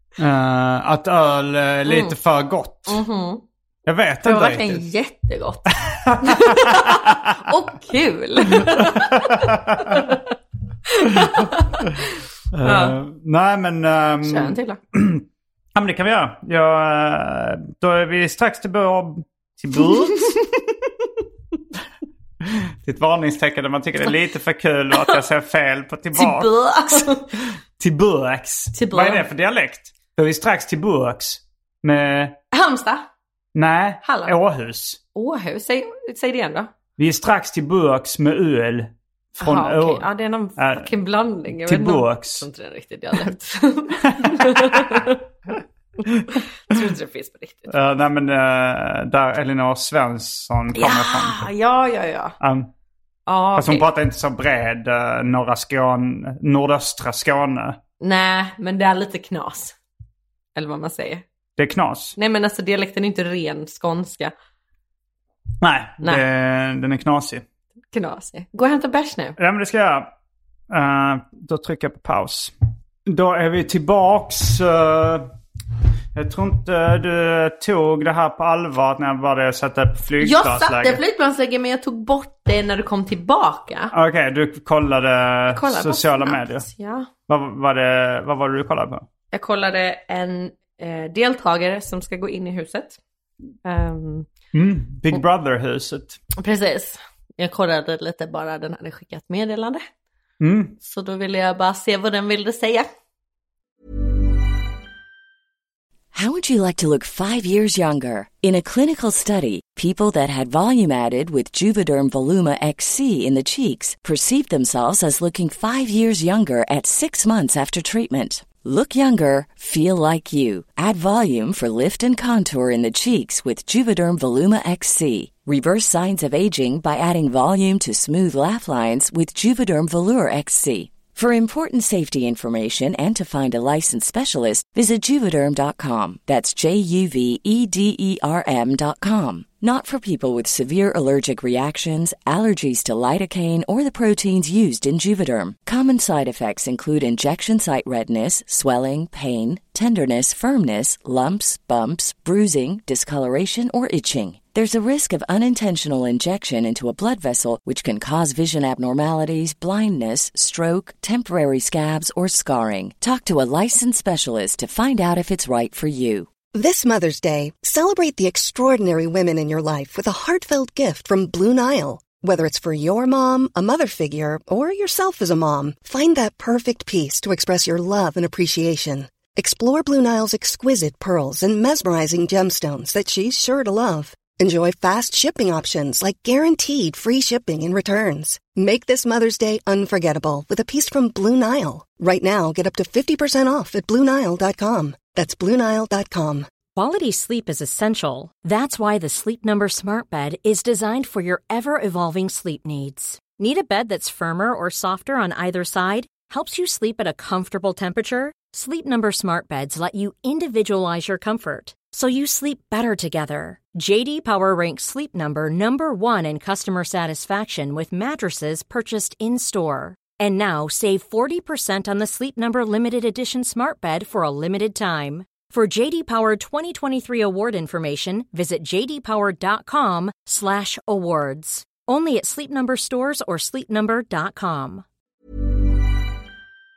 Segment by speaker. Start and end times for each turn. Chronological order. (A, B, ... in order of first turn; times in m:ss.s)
0:00.2-0:03.0 A
0:01.9-0:02.2 B
0:02.9-0:03.4 B
0:03.9-0:04.8 A
0:04.2-0:10.2 B
0:05.9-0:07.3 A
0:08.5-0:10.0 A
0:10.9-0:12.1 B
0:11.1-0:11.4 A
0:12.5-0:20.4 A
0:12.6-0:13.0 B
0:14.2-0:14.8 B
0:20.2-0:20.5 B
0:22.4-0:27.1 A
0:26.2-0:27.3 B
0:27.8-0:32.4 A
0:28.7-0:29.3 B
0:32.5-0:33.0 B
0:33.6-0:35.0 A
0:34.0-0:34.4 B
0:35.1-0:36.7 B
0:37.0-0:40.1 A
0:39.4-0:45.2 B
0:40.6-0:40.9 A
0:41.5-0:42.5 A
0:44.2-0:45.0 A
0:46.0-0:47.7 B
0:47.7-0:51.5 A
0:50.7-0:52.4 B
0:52.4-0:52.7 A
0:53.3-0:53.9 B
0:53.6-0:57.8 A
0:58.0-0:59.8 B
1:00.6-1:01.2 B
1:01.6-1:02.2 A
1:02.2-1:04.3 B
1:05.6-1:07.4 A
1:07.9-1:09.4 B
1:09.4-1:10.1 A
1:10.7-1:12.5 A
1:13.1-1:15.3 A
1:16.1-1:21.0 A
1:20.2-1:23.9 B
1:23.9-1:26.7 A
1:25.5-1:27.1 B
1:27.3-1:29.1 A
1:29.3-1:33.0 B
1:33.6-1:34.3 B
1:34.5-1:36.2 A
1:36.4-1:39.8 B
1:40.4-1:40.8 A
1:40.8-1:42.9 B
1:46.1-2:46.3 C
2:46.5-3:16.5 D
3:16.7-3:54.8 E